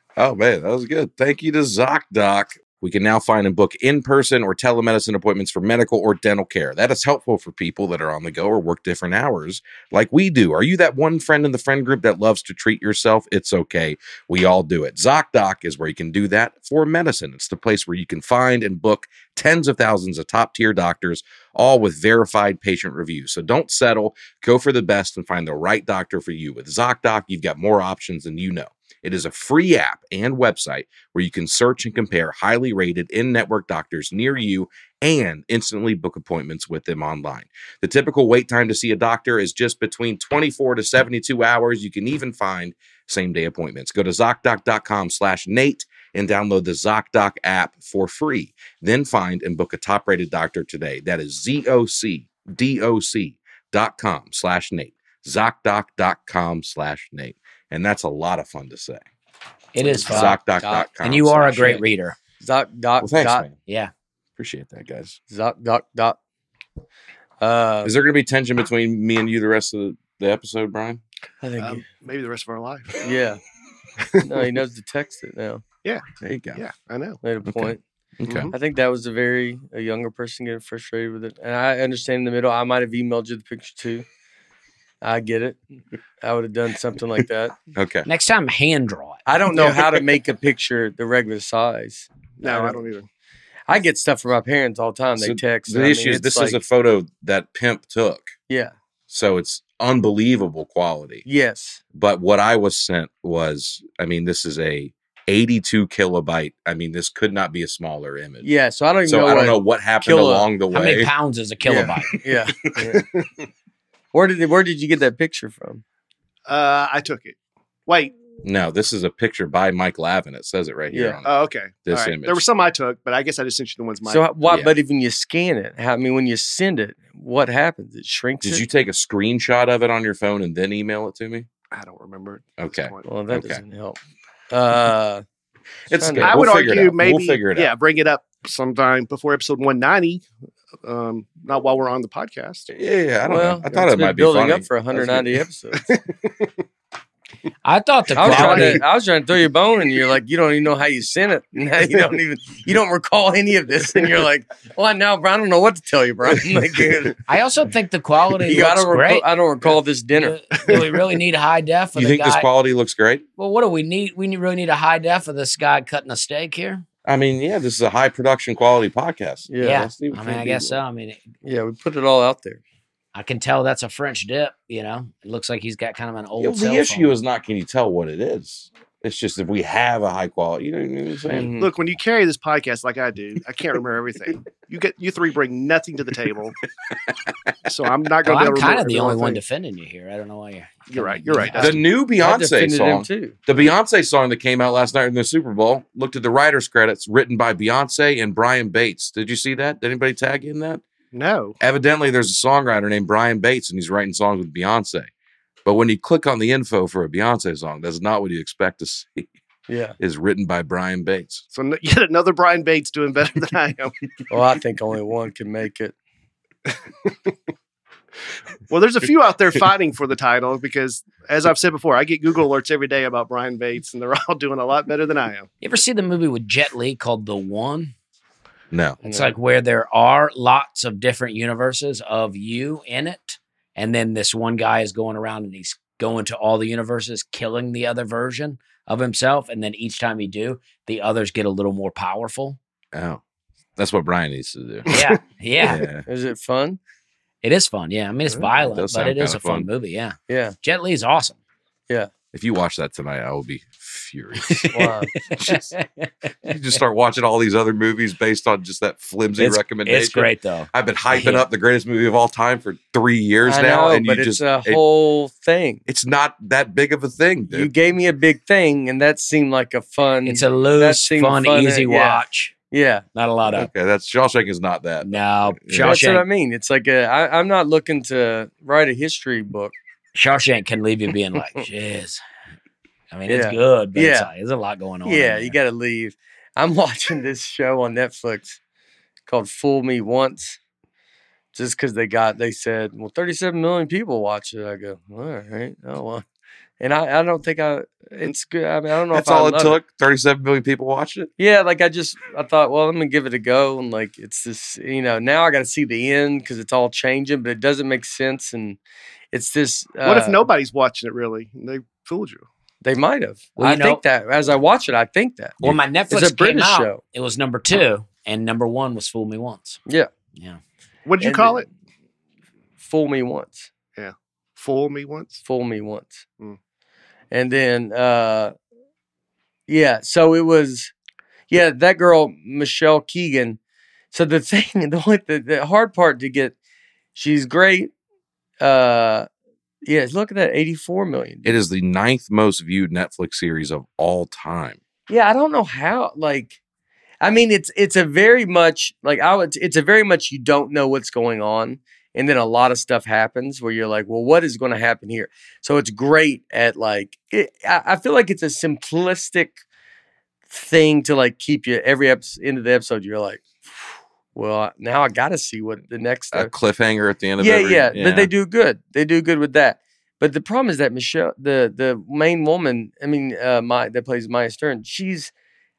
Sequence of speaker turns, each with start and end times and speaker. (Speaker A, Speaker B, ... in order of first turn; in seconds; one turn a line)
Speaker A: 0.2-59.0
Speaker B: 59.8-60.4
Speaker C: 59.8-60.9
Speaker A: 60.0-61.8
Speaker B: 61.0-62.2
Speaker C: 62.4-63.5
Speaker A: 63.0-63.6
Speaker A: 64.4-65.2
Speaker C: 65.3-66.2
Speaker C: 67.4-67.9
Speaker A: 67.8-71.0
Speaker C: 71.4-71.8
Speaker D: 71.6-73.0
Speaker C: 73.0-73.4
Speaker C: 74.2-75.6
Speaker A: 76.2-76.6
Speaker D: 76.5-77.2
Speaker C: 77.2-77.8
Speaker A: 77.5-78.5
Speaker D: 78.3-78.5
Speaker C: 78.5-84.0
Speaker C: 85.0-85.6
Speaker C: 86.2-87.5
Speaker A: 87.8-88.1
Speaker B: 88.1-89.2
Speaker C: 89.3-92.8
Speaker D: 92.4-93.1
Speaker C: 93.7-96.6
Speaker A: 95.2-98.3
Speaker A: 99.1-101.2
Speaker C: 101.3-101.8
Speaker A: 101.9-108.5
Speaker C: 108.4-110.5
Speaker A: 109.0-111.1
Speaker B: 110.7-112.2
Speaker C: 111.6-113.0
Speaker D: 112.9-113.3
Speaker C: 114.1-115.8
Speaker D: 116.5-117.4
Speaker D: 117.9-118.1
Speaker A: 118.4-121.3
Speaker C: 120.9-121.2
Speaker D: 121.2-124.2
Speaker A: 121.8-122.4
Speaker C: 124.0-128.6
Speaker A: 124.5-124.7
Speaker A: 128.4-131.5
Speaker D: 131.7-133.1
Speaker A: 132.6-133.6
Speaker C: 133.1-134.0
Speaker C: 134.5-135.2
Speaker A: 135.9-137.7
Speaker C: 135.9-136.4
Speaker D: 136.2-140.3
Speaker D: 140.8-142.7
Speaker A: 142.7-145.3
Speaker C: 143.3-145.9
Speaker D: 145.9-146.5
Speaker B: 147.7-148.8
Speaker C: 148.1-157.2
Speaker D: 148.2-148.8
Speaker B: 157.3-159.3
Speaker C: 158.5-160.4
Speaker B: 160.2-162.5
Speaker A: 161.9-163.2
Speaker B: 163.4-166.8
Speaker A: 167.1-170.8
Speaker C: 169.5-169.9
Speaker B: 169.6-171.2
Speaker C: 171.4-172.6
Speaker B: 173.1-177.1
Speaker A: 176.4-181.5
Speaker C: 181.3-181.7
Speaker D: 181.6-186.6
Speaker D: 187.7-189.4
Speaker B: 188.2-191.8
Speaker D: 190.9-191.8
Speaker A: 191.6-200.8
Speaker C: 192.2-193.4
Speaker D: 201.1-201.6
Speaker A: 201.6-205.1
Speaker A: 205.7-209.3
Speaker C: 209.7-210.0
Speaker A: 210.0-211.4
Speaker D: 211.5-213.9
Speaker C: 214.3-215.9
Speaker D: 218.7-225.5
Speaker B: 225.6-227.9
Speaker A: 228.7-229.0
Speaker C: 229.0-229.3
Speaker B: 229.1-242.6
Speaker A: 242.9-243.2
Speaker A: 243.8-244.9
Speaker D: 244.9-245.2
Speaker B: 244.9-245.9
Speaker A: 245.6-246.1
Speaker C: 246.1-246.8
Speaker B: 247.4-251.4
Speaker A: 248.6-249.7
Speaker C: 250.3-250.6
Speaker A: 252.3-255.7
Speaker B: 254.5-256.1
Speaker C: 254.7-255.1
Speaker A: 256.4-264.8
Speaker B: 259.4-261.4
Speaker C: 263.4-265.8
Speaker A: 265.9-267.7
Speaker C: 267.5-273.1
Speaker B: 270.3-272.5
Speaker B: 273.1-273.7
Speaker A: 273.5-276.0
Speaker B: 275.0-276.2
Speaker C: 275.8-279.8
Speaker B: 280.1-282.2
Speaker B: 283.1-285.6
Speaker C: 283.3-284.3
Speaker C: 285.1-288.6
Speaker C: 289.3-290.6
Speaker C: 291.5-296.2
Speaker C: 296.8-299.8
Speaker A: 299.1-301.3
Speaker C: 301.4-308.8
Speaker C: 309.3-310.4
Speaker D: 310.0-312.4
Speaker C: 312.8-315.6
Speaker B: 313.6-314.0
Speaker B: 315.6-319.8
Speaker C: 316.1-317.0
Speaker D: 321.1-321.7
Speaker C: 321.2-321.7
Speaker C: 322.8-323.7
Speaker D: 324.0-325.4
Speaker C: 325.4-326.2
Speaker C: 327.3-328.5
Speaker C: 329.7-330.9
Speaker C: 331.5-333.6
Speaker C: 334.1-336.6
Speaker C: 337.1-337.9
Speaker C: 338.6-339.3
Speaker C: 339.9-341.6
Speaker A: 341.4-344.8
Speaker C: 345.1-346.6
Speaker C: 347.2-359.6
Speaker C: 360.5-363.5
Speaker C: 364.3-366.5
Speaker A: 366.3-368.3
Speaker C: 367.4-375.3